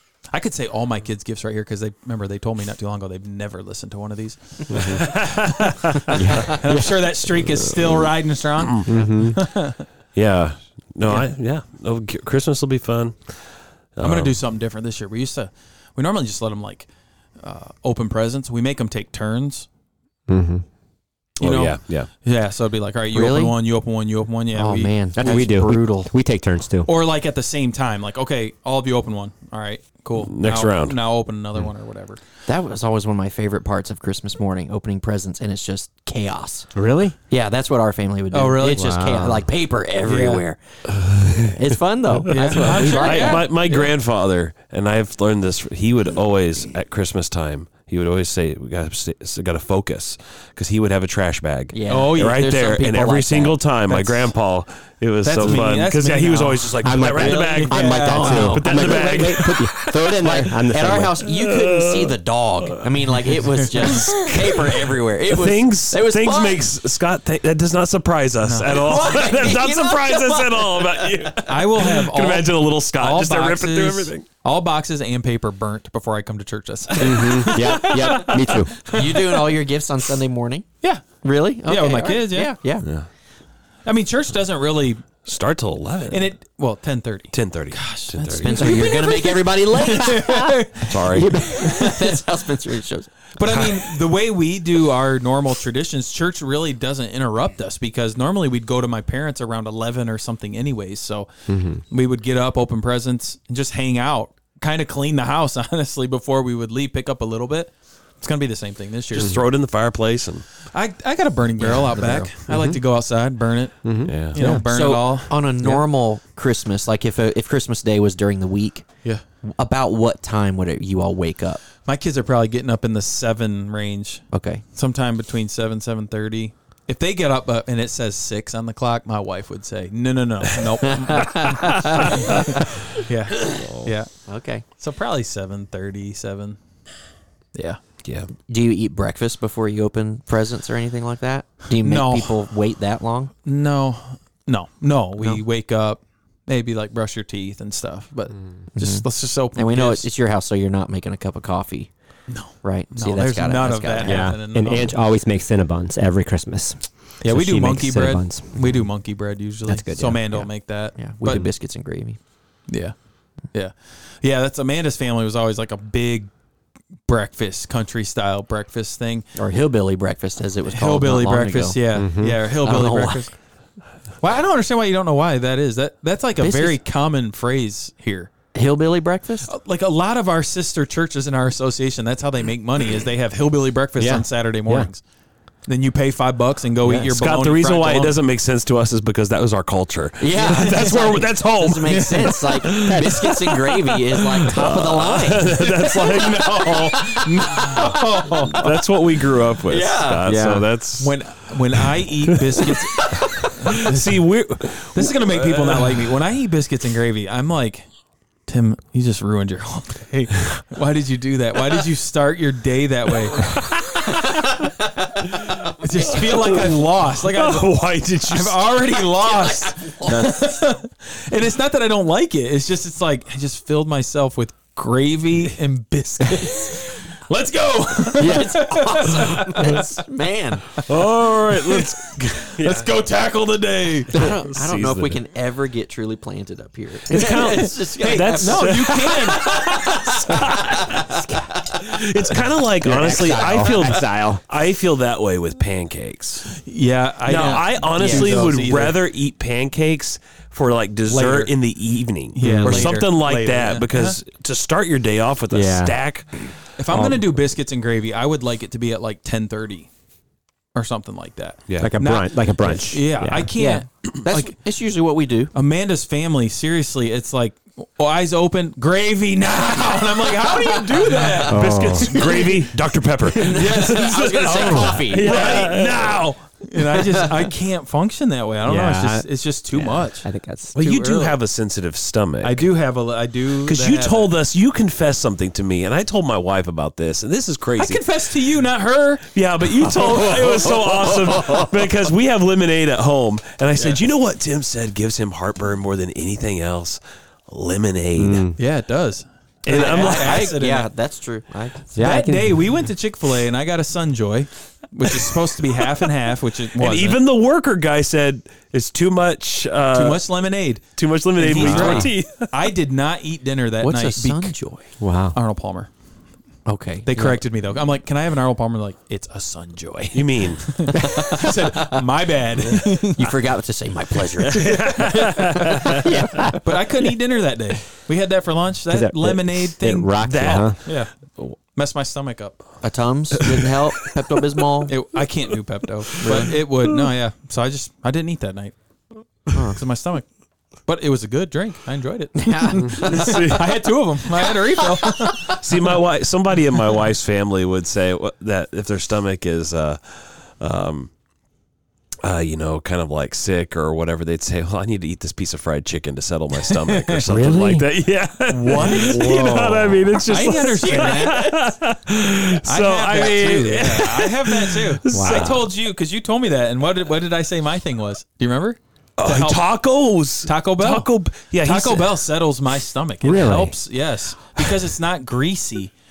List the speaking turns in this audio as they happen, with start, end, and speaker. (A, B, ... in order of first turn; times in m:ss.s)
0:00.3-0:05.9 A
0:04.9-0:05.3 B
0:06.1-0:06.9 C
0:06.4-0:09.8 A
0:08.8-0:09.4 C
0:10.1-0:14.4 B
0:14.0-0:19.7 A
0:20.3-0:20.6 C
0:21.4-0:22.1 B
0:21.4-0:25.7 A
0:23.1-0:23.6 D
0:24.5-0:26.1 D
0:25.1-0:26.9 C
0:26.8-0:32.2 A
0:30.2-0:31.0 B
0:32.4-0:36.7 D
0:36.7-0:37.1 C
0:37.3-0:40.6 D
0:38.3-0:39.0 A
0:38.7-0:39.5 C
0:40.0-0:40.4 A
0:41.0-0:41.4 B
0:41.5-0:43.8 D
0:42.3-0:43.8 A
0:42.5-1:00.2 B
0:51.7-0:53.6 D
0:51.9-0:52.4 A
0:53.9-0:54.2 A
0:55.2-0:58.9 A
0:56.8-1:01.2 C
0:57.2-0:59.2 D
1:00.1-1:06.7 D
1:01.2-1:02.1 B
1:05.3-1:14.2 B
1:08.4-1:09.2 A
1:08.7-1:11.4 D
1:11.5-1:19.6 A
1:17.0-1:18.9 C
1:18.9-1:22.9 D
1:20.8-1:22.6 A
1:23.8-1:25.2 A
1:25.2-1:26.3 B
1:26.1-1:32.1 A
1:27.3-1:29.0 B
1:28.2-1:33.3 D
1:30.9-1:31.4 B
1:33.4-1:49.4 A
1:33.5-1:33.8 B
1:41.5-1:41.8 C
1:49.1-1:50.5 B
1:50.7-1:55.8 A
1:51.6-1:52.3 D
1:52.5-1:52.8 C
1:53.8-1:54.6 C
1:54.0-1:54.4 B
1:54.4-1:58.9 D
1:59.4-2:01.6 D
2:01.8-2:16.6 A
2:04.3-2:04.6 D
2:11.0-2:12.1 D
2:13.5-2:13.9 B
2:14.2-2:14.6 D
2:17.5-2:17.8 A
2:18.4-2:23.3 D
2:21.8-2:22.4 A
2:23.4-2:30.1 A
2:28.7-2:31.9 D
2:32.3-2:34.9 A
2:32.5-2:34.3 D
2:34.0-2:38.9 C
2:37.2-2:41.4 A
2:39.6-2:40.5 C
2:40.8-2:42.2 D
2:42.7-2:46.3 A
2:47.0-2:49.2 A
2:49.3-2:53.3 D
2:50.7-2:53.4 A
2:51.9-2:52.4 C
2:54.2-2:58.3 A
2:56.4-2:56.8 D
2:58.5-2:59.5 D
2:59.4-3:05.0 A
3:04.0-3:04.9 C
3:05.6-3:08.1 A
3:07.0-3:13.4 B
3:10.2-3:16.0 D
3:10.4-3:11.1 A
3:11.9-3:13.0 A
3:14.4-3:17.8 B
3:16.0-3:18.6 A
3:16.6-3:18.7 D
3:18.5-3:22.0 B
3:19.6-3:20.7 D
3:21.0-3:24.2 A
3:23.4-3:26.1 B
3:24.9-3:27.9 A
3:28.4-3:33.5 A
3:33.4-3:34.4 B
3:35.8-3:49.9 A
3:36.1-3:38.7 B
3:39.6-3:40.5 D
3:48.2-3:50.7 D
3:50.8-3:52.9 B
3:52.6-3:54.3 A
3:54.1-4:00.9 D
3:54.2-3:55.2 B
3:57.1-4:06.6 B
3:58.0-4:00.4 A
4:02.8-4:04.4 C
4:06.5-4:09.0 A
4:07.2-4:16.3 B
4:08.0-4:08.5 D
4:11.1-4:11.6 A
4:12.3-4:14.2 A
4:12.4-4:13.0 C
4:15.5-4:16.0 C
4:16.8-4:19.9 A
4:16.9-4:17.2 C
4:20.7-4:24.5 A
4:21.7-4:21.9 B
4:21.8-4:23.5 C
4:23.5-4:25.5 D
4:25.5-4:31.6 A
4:31.4-4:36.3 B
4:31.5-4:32.1 C
4:32.1-4:32.4 A
4:32.1-4:32.5 D
4:33.4-4:35.7 D
4:33.4-4:41.3 A
4:38.6-4:40.8 C
4:40.7-4:42.7 B
4:42.4-4:44.3 A
4:43.6-4:48.0 B
4:47.8-4:51.4 A
4:49.3-4:58.5 B
4:53.8-4:54.0 A
4:58.2-4:58.6 C
4:58.6-5:00.9 A
4:59.6-5:00.5 B
4:59.7-5:01.9 D
5:01.9-5:02.6 C
5:01.9-5:07.2 A
5:06.8-5:12.7 B
5:09.9-5:14.6 A
5:11.6-5:12.1 D
5:11.6-5:12.0 C
5:13.8-5:14.8 D
5:15.0-5:15.4 C
5:15.3-5:15.9 A
5:16.6-5:17.1 D
5:17.0-5:23.3 A
5:20.1-5:20.9 B
5:23.0-5:24.7 D
5:24.5-5:25.5 A
5:24.5-5:26.1 B
5:25.9-5:26.6 C
5:26.6-5:32.8 A
5:28.9-5:30.8 C
5:30.2-5:31.6 B
5:32.8-5:34.9 D
5:34.9-5:38.7 A
5:36.2-5:36.5 D
5:39.4-5:40.3 A
5:40.8-5:45.6 A
5:42.4-5:43.6 D
5:43.0-5:43.9 B
5:45.5-5:51.1 B
5:52.2-6:05.7 B
5:56.8-5:57.2 A
5:57.2-5:57.9 C
5:58.5-6:01.7 A
5:59.1-6:00.0 C
6:01.0-6:01.2 D
6:02.6-6:09.6 A
6:05.1-6:05.6 C
6:09.2-6:12.2 B
6:10.4-6:15.9 A
6:13.2-6:13.8 C